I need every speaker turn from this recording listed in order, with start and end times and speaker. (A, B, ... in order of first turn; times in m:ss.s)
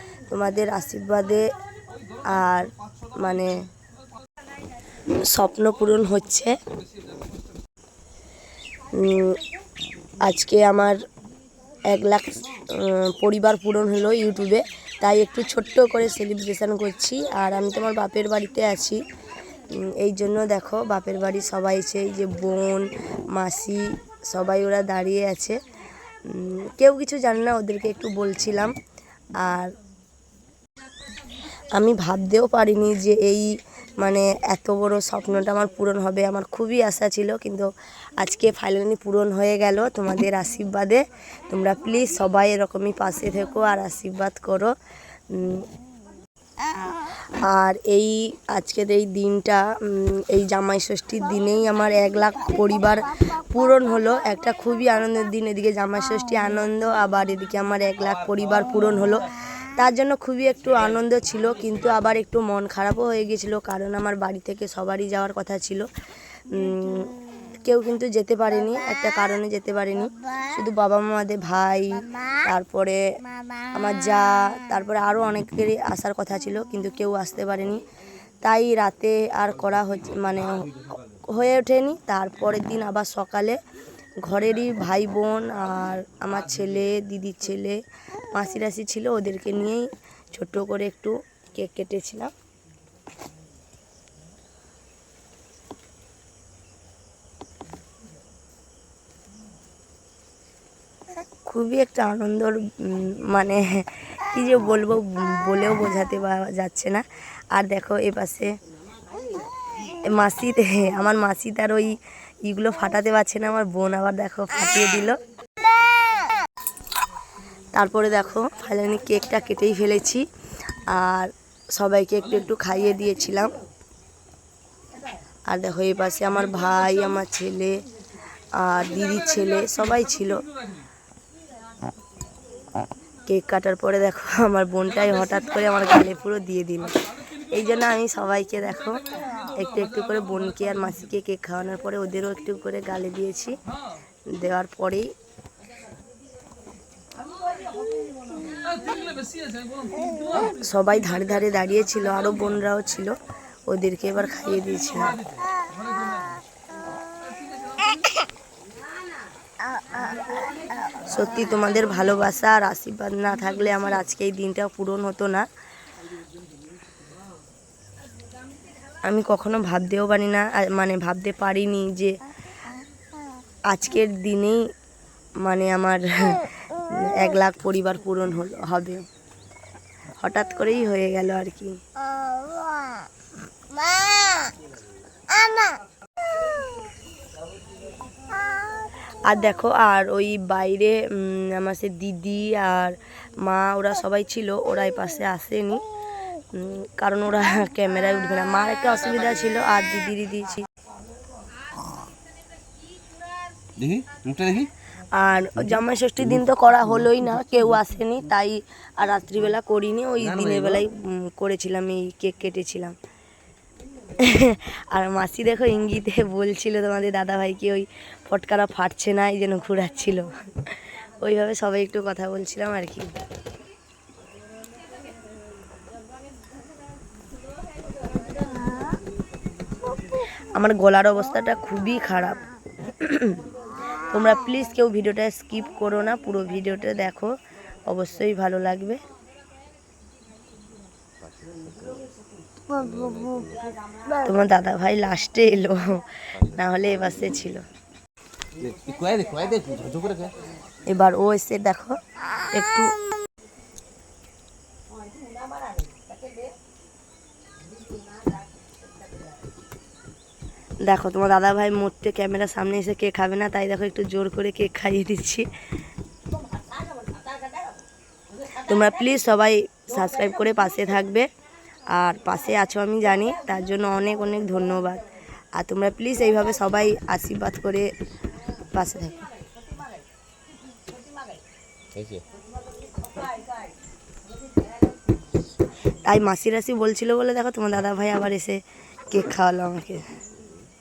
0:00.3-0:01.5 A
0:02.2-0:03.5 A
0:05.3-0:06.6 A
0:08.9-0:09.4 A
0:10.2-0:11.0 A
0:11.8-0:19.0 A
0:19.7-0:25.6 A
0:26.2-0:28.7 A
0:29.4-0:29.7 A
0:31.7-0:33.5 A
0:34.0-0:37.7 A
0:38.2-0:44.7 A
0:45.3-0:45.7 A
0:47.0-1:05.8 A
1:06.5-1:13.0 A
1:13.6-1:17.8 A
1:18.4-1:23.6 A
1:24.2-1:27.8 A
1:28.3-1:32.3 A
1:41.4-1:48.5 A
1:49.9-1:55.2 A
1:57.8-2:00.2 A
2:00.9-2:03.5 A
2:05.5-2:07.8 A
2:08.5-2:10.4 A
2:13.2-2:17.0 A
2:17.5-2:23.6 A
2:24.3-2:25.1 A
2:30.0-2:35.2 A
2:41.0-2:45.5 A
2:49.0-2:52.2 A
2:53.7-2:54.6 A
2:55.4-2:56.5 A
2:57.0-2:59.0 A
3:00.2-3:01.8 A
3:09.2-3:15.8 A
3:16.5-3:20.6 A
3:23.8-3:24.7 B
3:25.1-3:33.0 A
3:30.4-3:30.7 B
3:34.2-3:43.1 A
3:50.5-3:53.4 A
3:54.1-3:57.3 A
3:57.8-3:59.0 A
4:01.4-4:02.0 B
4:02.7-4:03.6 B
4:04.2-4:07.6 A
4:08.6-4:10.3 B
4:10.9-4:12.0 A
4:12.5-4:12.9 A
4:20.8-4:25.5 A
4:28.5-4:31.3 A
4:31.9-4:35.0 A
4:35.6-4:37.9 A
4:38.7-4:39.2 A
4:41.9-4:42.2 B
4:46.0-4:50.0 A